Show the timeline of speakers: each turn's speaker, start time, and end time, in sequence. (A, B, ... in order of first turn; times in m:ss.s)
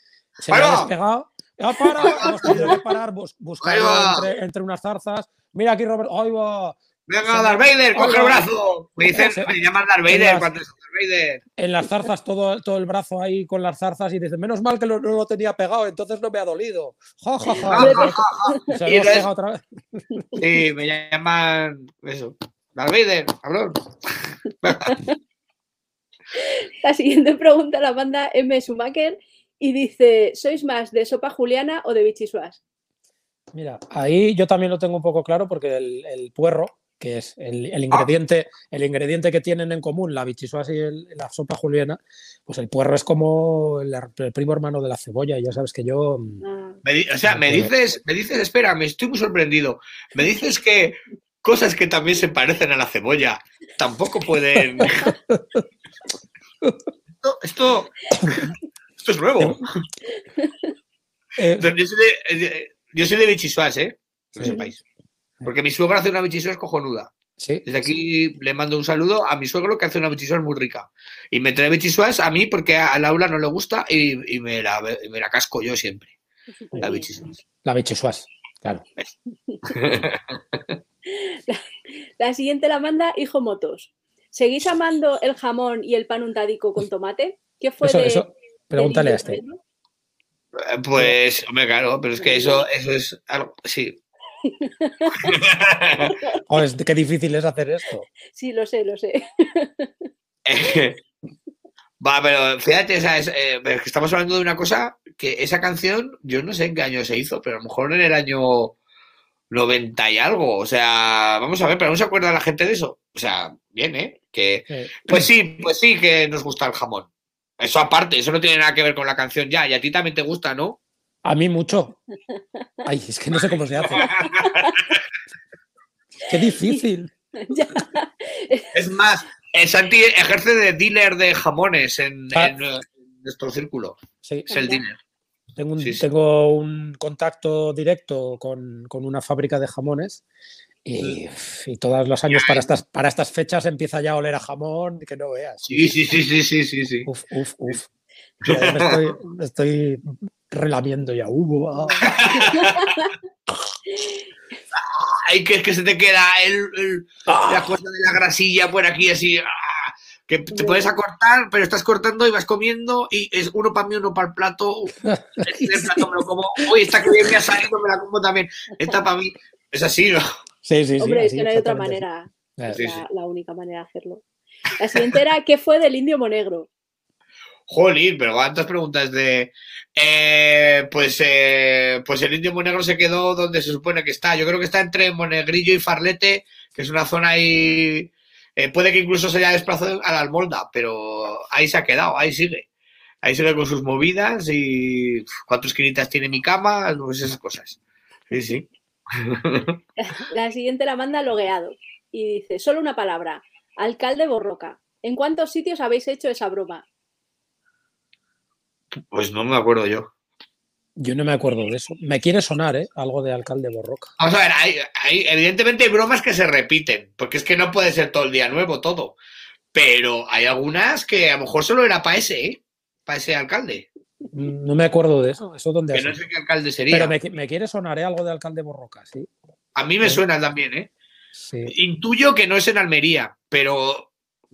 0:00.4-0:08.5 A
0:00.5-0:00.9 B
0:02.0-0:02.8 B
0:02.0-0:02.8 C
0:03.6-0:04.3 B
0:07.1-0:11.4 B
0:09.1-0:10.5 A
0:11.6-0:20.2 A
0:17.6-0:19.3 B
0:17.7-0:18.7 C
0:20.4-0:25.0 B
0:24.8-0:25.1 C
0:26.3-0:32.6 C
0:33.5-0:46.4 A
0:46.4-0:46.8 C
0:46.8-0:55.2 B
0:47.3-0:47.7 A
0:54.8-0:55.6 A
0:57.2-0:59.7 B
0:58.2-0:58.4 A
0:59.4-0:59.6 A
1:00.3-1:00.7 C
1:01.4-1:01.7 A
1:01.6-1:04.8 B
1:04.3-1:04.6 A
1:04.4-1:04.7 C
1:05.4-1:07.1 B
1:07.4-1:07.7 A
1:07.6-1:16.1 B
1:16.6-1:17.1 C
1:16.8-1:17.4 B
1:17.6-1:18.8 A
1:19.5-1:19.7 C
1:19.6-1:20.6 B
1:21.1-1:29.6 C
1:27.8-1:29.4 A
1:30.6-1:34.0 B
1:32.2-1:32.7 C
1:34.4-1:35.3 C
1:35.2-1:36.2 B
1:36.1-1:36.4 C
1:36.5-1:38.1 A
1:38.3-1:40.1 C
1:40.4-1:41.0 B
1:42.0-1:48.8 B
1:49.5-1:57.1 B
1:54.7-1:55.3 A
1:57.6-2:00.8 B
2:01.2-2:02.0 A
2:02.8-2:04.1 A
2:03.7-2:05.0 B
2:04.0-2:04.9 C
2:06.2-2:07.1 A
2:06.4-2:06.8 C
2:07.4-2:08.7 C
2:08.7-2:15.0 B
2:14.2-2:14.5 A
2:14.5-2:14.8 C
2:15.6-2:20.2 A
2:15.8-2:16.0 B
2:20.8-2:26.0 A
2:22.3-2:22.7 B
2:25.6-2:27.1 B
2:27.0-2:27.9 A
2:28.4-2:29.0 B
2:28.4-2:32.5 A
2:31.8-2:33.1 C
2:32.0-2:33.0 B
2:33.9-2:34.2 C
2:34.7-2:50.2 B
2:37.3-2:37.8 A
2:40.5-2:40.8 C
2:45.0-2:46.1 A
2:50.6-2:52.0 A
2:51.0-2:54.2 C
2:52.6-2:52.9 A
2:52.7-2:53.0 B
2:54.8-2:56.7 C
2:57.7-3:12.7 B
3:13.2-3:17.8 B
3:18.3-3:19.8 B
3:20.0-3:26.8 C
3:29.1-3:30.1 B
3:31.0-3:34.1 A
3:34.2-3:39.2 B
3:39.7-3:43.8 B
3:44.3-3:46.2 A
3:45.9-3:47.1 B
3:46.9-3:49.3 A
3:49.7-3:50.9 B
3:51.4-3:51.7 A
3:51.7-3:54.1 B